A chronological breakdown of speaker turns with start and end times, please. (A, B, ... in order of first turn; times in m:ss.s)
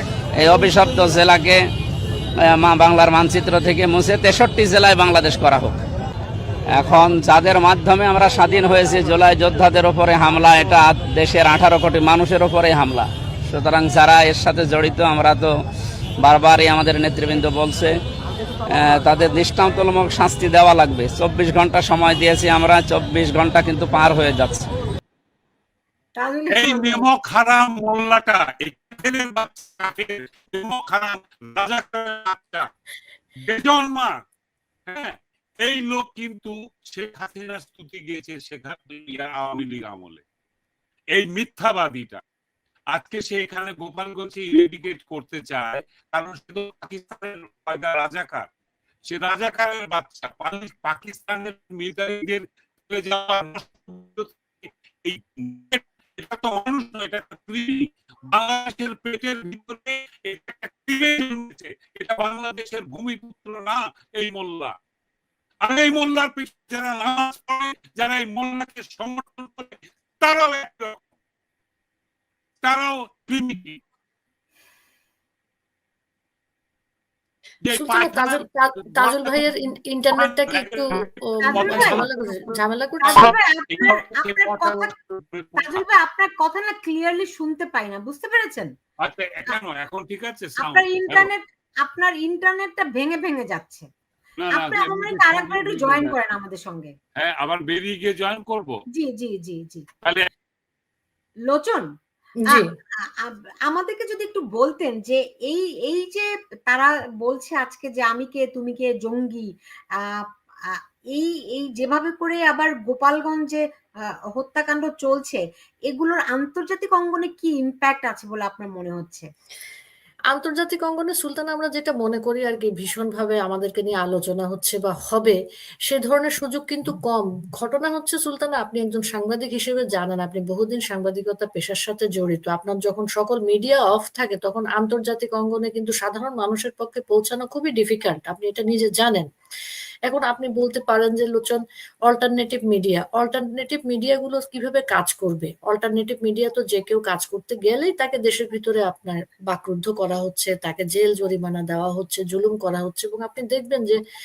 0:00.4-0:01.6 A
0:02.4-0:05.8 A
0:06.7-0:15.5 A
0:16.2-0:18.0 A
0:18.7-0:24.7 A
0:26.2-0:27.0 B
0:26.5-0:32.7 C
0:33.5-0:34.1 C
0:34.9-0:40.2 C
0:41.2-0:42.2 C
0:42.9-0:48.5 C
0:49.1-1:04.8 C
1:05.6-1:11.0 C
1:12.6-1:13.8 C
1:17.6-1:19.5 C
1:17.7-1:23.3 D
1:20.2-1:22.4 C
1:21.4-1:22.1 B
1:23.0-1:24.9 B
1:23.2-1:25.8 C
1:25.6-1:28.7 B
1:29.0-1:31.3 C
1:30.6-1:33.9 B
1:34.4-1:36.2 C
1:34.5-1:36.9 B
1:37.2-1:38.8 C
1:39.0-1:39.8 B
1:40.0-1:40.3 C
1:41.5-1:41.9 B
1:42.4-1:42.7 D
1:43.2-1:49.5 B
1:50.0-1:53.6 B
1:54.4-1:59.3 B
2:00.3-2:19.3 D
2:20.1-2:34.0 D